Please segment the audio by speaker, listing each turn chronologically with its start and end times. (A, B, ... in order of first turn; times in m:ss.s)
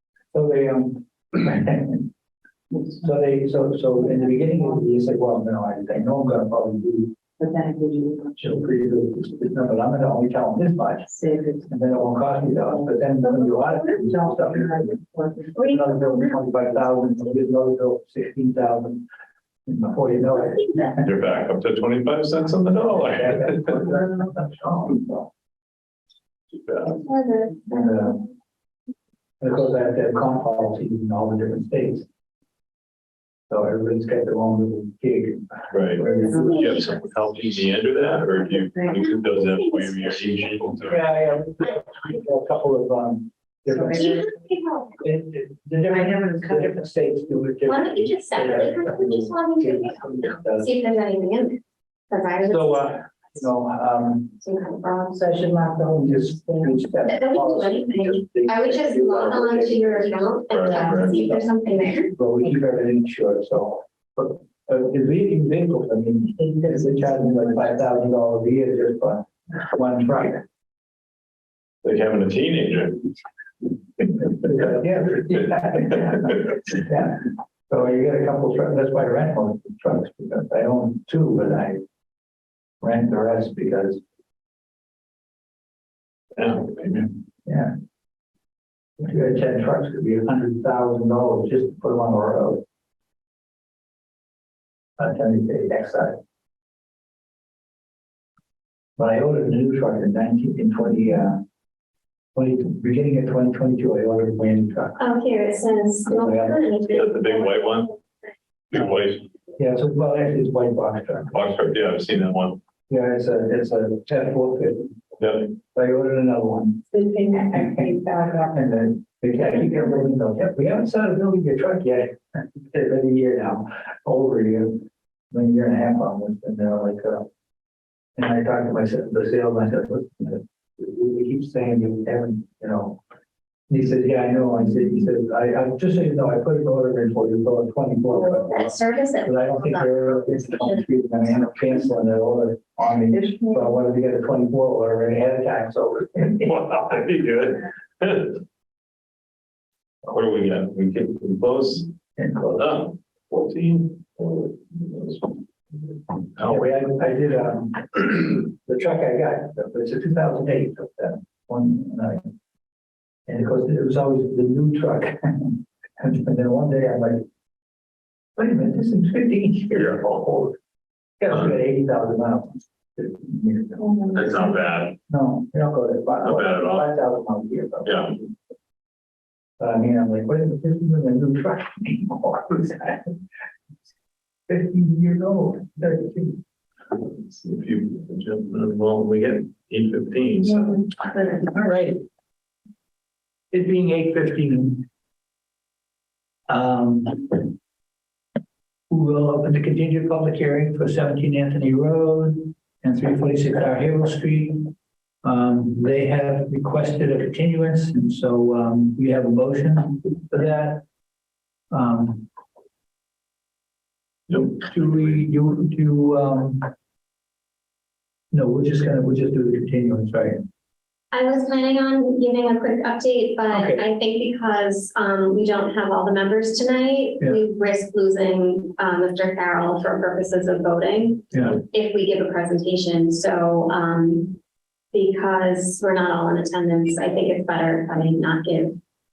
0:00.3-0:02.1 A
0:02.8-0:07.1 A
0:07.4-0:08.4 B
0:08.4-0:15.0 A
0:11.1-0:11.7 B
0:13.2-0:15.6 B
0:15.5-0:15.8 C
0:15.6-0:19.0 A
0:19.7-0:21.1 A
0:21.0-0:23.8 D
0:22.9-0:25.3 A
0:26.6-0:27.0 D
0:27.0-0:27.7 C
0:27.7-0:28.2 A
0:29.4-0:32.1 A
0:33.5-0:36.7 A
0:35.7-0:41.1 D
0:36.2-0:36.9 C
0:36.2-0:36.6 B
0:38.7-0:39.0 B
0:39.6-0:40.3 C
0:40.8-0:44.2 A
0:43.7-0:44.2 B
0:43.9-0:45.0 C
0:45.0-0:50.7 A
0:45.9-0:46.8 B
0:47.6-0:53.0 C
0:52.4-0:54.4 A
0:54.4-0:55.1 C
0:55.1-0:56.8 B
0:55.9-1:00.3 A
0:57.0-1:02.1 C
1:00.5-1:01.3 D
1:02.1-1:10.4 A
1:06.4-1:07.4 B
1:11.8-1:13.1 D
1:14.1-1:21.8 A
1:22.8-1:24.0 A
1:26.3-1:27.1 D
1:27.4-1:27.7 A
1:29.0-1:32.6 A
1:35.0-1:36.2 A
1:39.0-1:41.4 A
1:42.3-1:45.0 A
1:45.0-1:47.8 C
1:46.0-1:46.6 A
1:46.9-1:47.9 D
1:48.7-1:49.3 D
1:49.6-1:51.4 A
1:51.3-1:52.6 D
1:52.9-1:55.0 A
1:55.2-1:55.5 D
1:55.7-1:56.9 A
1:56.9-1:58.7 B
1:57.5-1:57.9 A
1:58.5-2:07.3 A
2:08.2-2:13.0 A
2:13.7-2:26.5 A
2:18.1-2:20.8 C
2:23.1-2:23.6 B
2:26.4-2:28.4 D
2:30.0-2:31.9 D
2:32.2-2:32.7 A
2:32.5-2:35.4 D
2:36.4-2:36.7 D
2:36.4-2:42.3 A
2:43.3-2:47.2 A
2:48.4-2:50.6 A
2:49.7-2:50.1 D
2:51.2-2:54.2 A
2:53.8-2:54.4 B
2:54.1-2:55.0 D
2:55.1-2:58.3 A
2:56.2-2:56.9 D
2:57.8-2:58.1 D
2:59.6-3:03.2 A
3:04.5-3:06.4 A
3:06.9-3:10.9 D
3:11.4-3:12.0 A
3:13.5-3:14.8 A
3:16.5-3:17.5 A
3:18.9-3:30.8 A
3:31.7-3:32.3 A
3:34.3-3:35.2 D
3:34.6-3:36.7 A
3:38.3-3:40.4 A
3:41.1-3:54.4 C
3:43.5-3:43.8 A
3:51.3-3:51.6 A
3:54.9-3:58.8 C